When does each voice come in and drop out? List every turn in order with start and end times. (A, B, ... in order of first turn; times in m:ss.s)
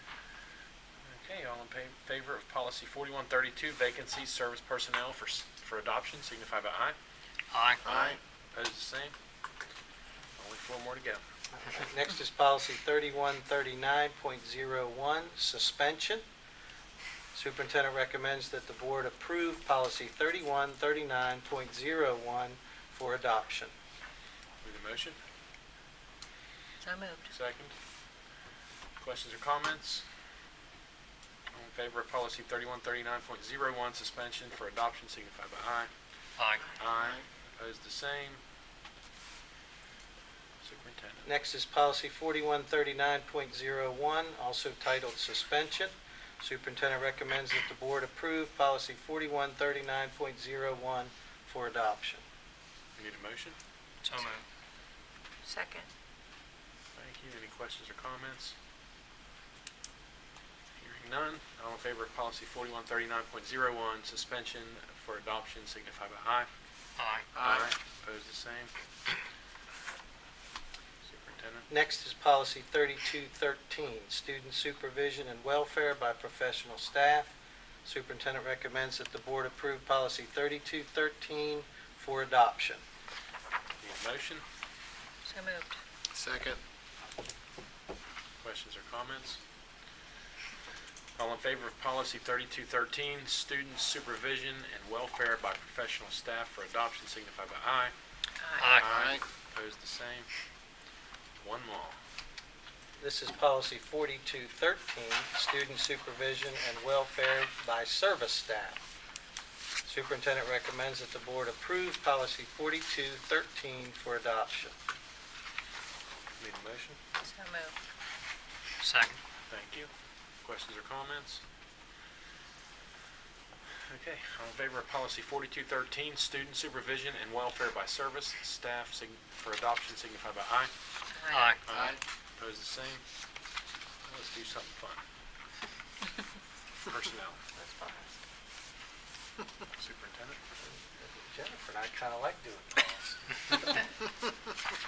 0:01.0-0:06.9 A
0:07.5-0:07.8 B
0:07.8-0:08.2 C
0:07.9-0:09.1 A
0:10.4-0:11.2 A
0:11.5-0:16.2 D
0:17.3-0:23.7 D
0:24.6-0:25.2 A
0:26.8-0:27.3 E
0:27.3-0:27.7 A
0:29.0-0:30.0 A
0:31.5-0:35.9 A
0:36.4-0:36.6 B
0:36.8-0:38.4 A
0:40.6-0:41.3 A
0:41.2-0:52.2 D
0:53.0-0:53.6 A
0:54.0-0:54.4 B
0:55.4-0:55.9 E
0:57.0-0:58.5 A
1:00.8-1:06.5 A
1:07.0-1:07.3 B
1:07.3-1:07.7 C
1:07.4-1:08.7 A
1:11.0-1:11.7 A
1:11.7-1:17.3 D
1:17.8-1:22.8 D
1:23.8-1:24.4 A
1:25.2-1:25.8 E
1:26.1-1:26.6 C
1:28.4-1:29.4 A
1:31.2-1:37.9 A
1:38.4-1:38.9 E
1:38.6-1:38.9 B
1:38.8-1:40.3 A
1:38.9-1:39.2 C
1:41.4-1:42.0 A
1:43.0-1:48.8 D
1:49.8-1:54.8 D
1:56.4-1:57.0 A
1:57.2-1:57.7 E
1:58.8-1:59.2 B
1:59.5-1:59.9 A
2:00.4-2:01.4 A
2:03.9-2:10.7 A
2:11.1-2:11.6 E
2:11.3-2:11.6 B
2:11.7-2:13.0 A
2:11.7-2:12.0 C
2:14.0-2:15.0 A
2:16.8-2:17.4 A
2:17.6-2:18.1 E
2:19.7-2:20.4 A
2:20.6-2:23.8 D